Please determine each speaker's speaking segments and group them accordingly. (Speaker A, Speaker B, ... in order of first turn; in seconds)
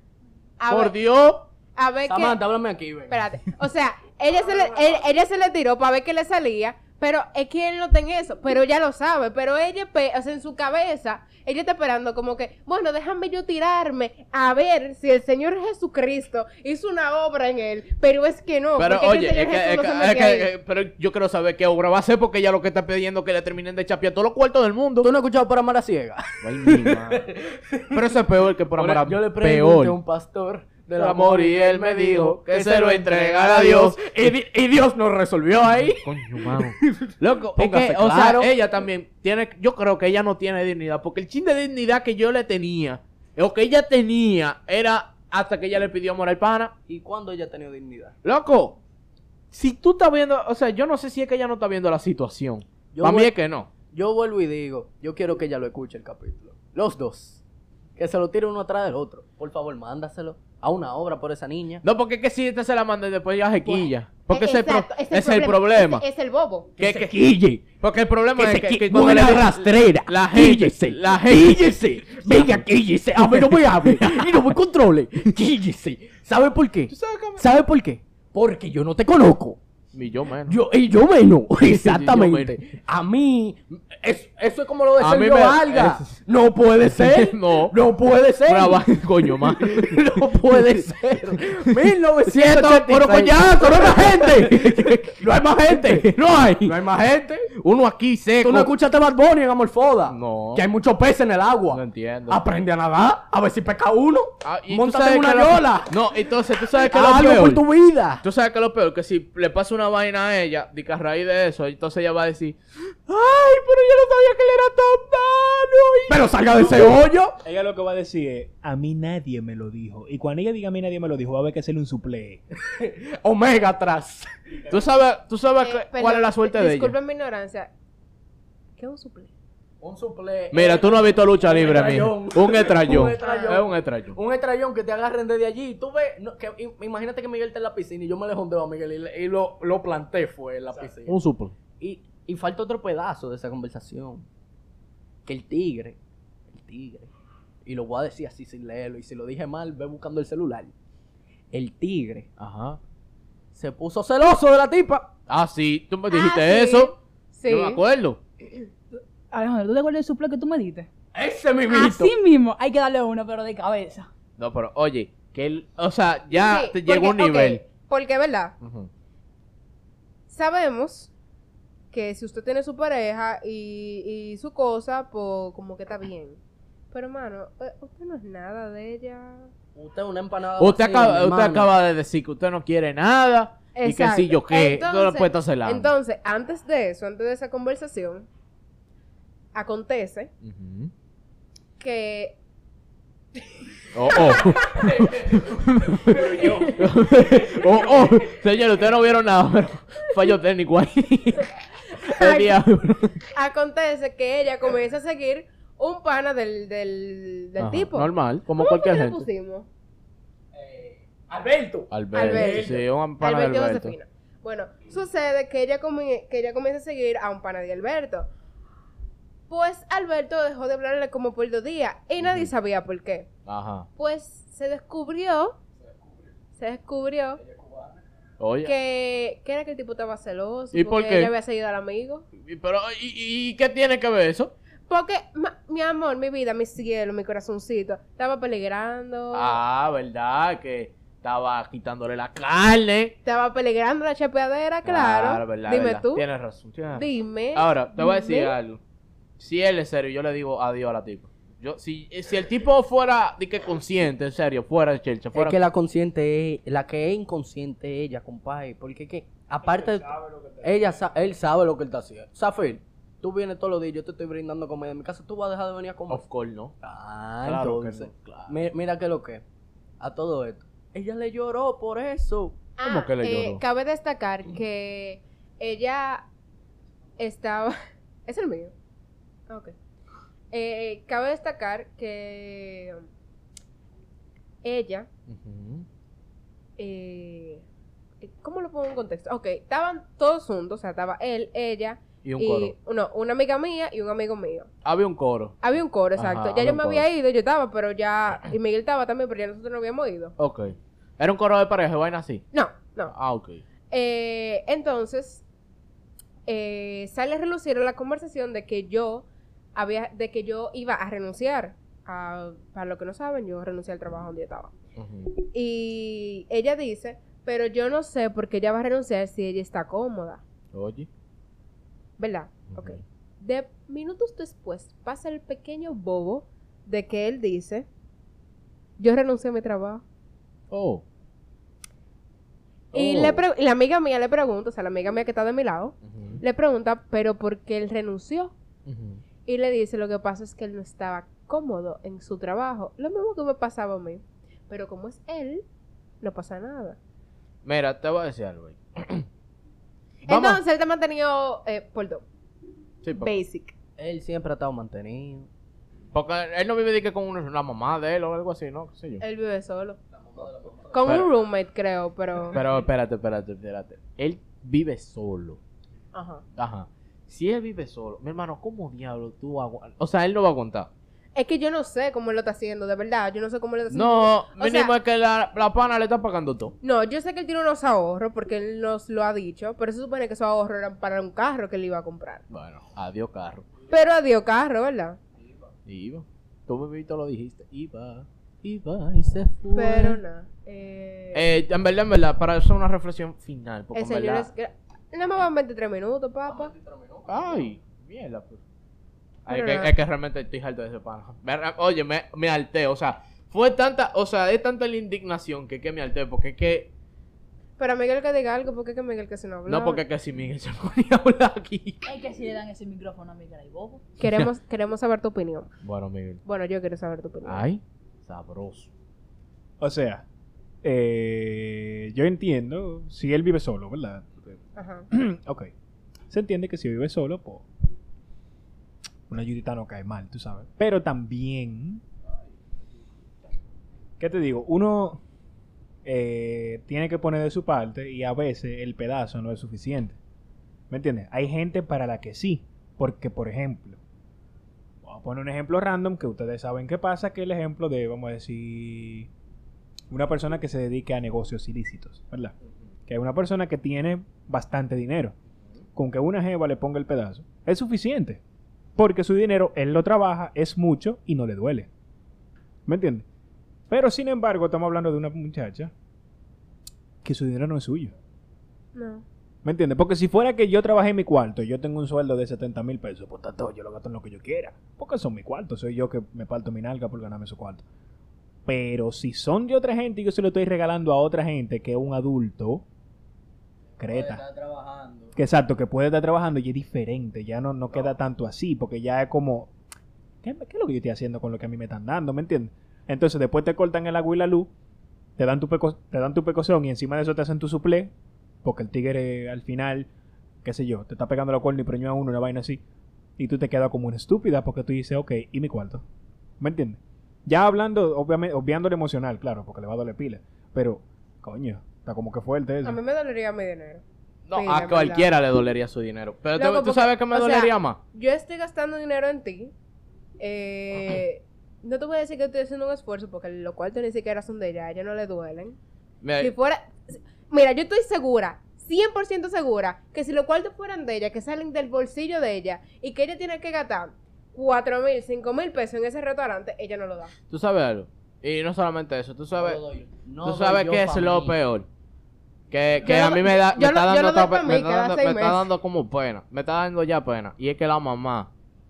Speaker A: 0.6-0.9, 1.8-2.4, 3.1-20.5, 63.7-66.7, 125.6-127.7, 128.8-129.3, 133.2-133.6, 156.1-157.8, 166.3-168.5, 170.3-171.1, 171.9-176.4, 176.9-179.5, 183.8-188.3, 189.6-190.3, 191.8-192.4, 196.4-196.7, 201.9-202.6, 203.3-209.7, 212.1-218.3, 219.5-223.3, 224.0-225.6, 226.6-227.4, 228.6-232.2, 234.9-239.6, 243.2-246.2, 246.9-248.5, 272.8-276.2, 277.2-278.7, 279.5-279.7, 280.5-283.1, 284.6-285.1, 286.8-287.6, 288.2-294.7, 295.6-300.3, 302.5-303.1, 303.9-305.4, 306.5-314.7, 315.5-320.4, 322.2-327.9, 329.0-330.0, 332.9-338.5, 339.5-345.6, 346.2-347.0, 350.3-352.2, 353.2-353.7, 359.2-360.0, 360.9-362.6, 366.1-366.4, 371.4-374.9, 376.8-382.4, 383.9-385.2, 389.7-391.5, 393.9-396.7, 399.5-399.9, 407.8-410.0, 414.2-415.7, 416.4-417.7, 424.8-425.1, 468.9-469.2, 512.8-515.3, 516.6-519.7, 520.4-525.8, 526.4-537.3, 543.0-545.7
Speaker B: 0.7-1.5, 18.8-25.1, 26.4-27.3, 27.9-30.0, 31.0-34.3, 35.6-46.7, 48.2-48.8, 49.5-53.7, 61.8-66.0, 66.8-72.7, 73.2-74.5, 76.9-77.5, 79.9-80.6, 81.6-82.6, 85.0-86.2, 86.9-87.8, 88.5-90.8, 92.3-96.8, 97.5-98.7, 100.1-100.7, 101.7-102.4, 104.4-107.6, 108.2-117.0, 124.7-127.0, 130.5-134.2, 141.1-141.5, 152.4-152.8, 155.3-156.9, 157.5-158.2, 164.4-167.6, 168.6-168.9, 180.6-185.9, 190.4-190.9, 193.9-203.3, 207.6-209.3, 211.9-213.9, 222.2-222.5, 223.5-223.9, 228.4-228.7, 230.7-231.3, 232.4-234.5, 239.3-243.2, 244.8-248.8, 249.4-255.6, 266.1-266.7, 267.4-268.6, 272.8-273.6, 285.3-285.9, 292.2-292.7, 294.9-295.6, 296.2-297.1, 300.4-302.4, 303.1-303.6, 315.0-315.3, 320.7-321.1, 322.7-323.0, 330.7-331.0, 332.9-333.4, 336.1-336.4, 338.9-339.2, 347.6-349.2, 350.3-350.6, 353.0-353.3, 356.1-359.2, 362.5-365.6, 366.6-370.9, 373.9-376.8, 382.5-383.7, 385.9-390.2, 391.3-394.5, 397.3-398.6, 399.5-406.9, 409.7-412.0, 414.2-414.5, 415.8-416.4, 417.4-418.9, 514.5-518.0, 526.2-526.5, 537.5-539.8, 540.4-541.9, 542.7-548.5
Speaker C: 2.1-3.2, 25.0-28.0, 28.8-38.5, 46.9-48.1, 52.9-53.3, 53.9-57.4, 58.0-61.8, 66.8-67.6, 68.4-79.6, 80.5-96.1, 96.7-97.5, 98.4-106.0, 106.8-108.2, 116.1-117.4, 122.6-124.3, 129.8-141.2, 141.8-144.3, 145.2-146.0, 146.5-147.1, 147.7-150.7, 151.5-152.3, 153.5-155.1, 161.1-162.2, 179.8-181.7, 196.2-196.5, 197.4-198.1, 210.6-212.8, 227.4-228.0, 255.3-260.1, 260.6-266.2, 266.8-269.4, 270.0-272.6, 354.0-355.5, 360.1-361.1, 396.5-397.7, 484.0-485.4, 539.6-541.6
Speaker D: 117.4-122.4, 259.6-261.3, 419.8-420.2, 420.8-424.3, 425.1-425.7, 426.3-427.7, 429.3-432.0, 434.2-435.2, 436.1-440.2, 440.9-444.0, 445.0-449.3, 450.1-452.5, 453.1-455.4, 456.0-458.4, 459.0-461.9, 462.9-463.3, 463.9-465.9, 467.2-468.1, 469.6-477.8, 478.7-482.9, 484.0-484.4, 485.4-489.7, 490.4-494.7, 495.4-498.1, 498.6-500.1, 500.6-502.8, 503.4-506.0, 506.6-513.0
Speaker E: 159.3-160.9, 161.7-164.1, 412.1-414.0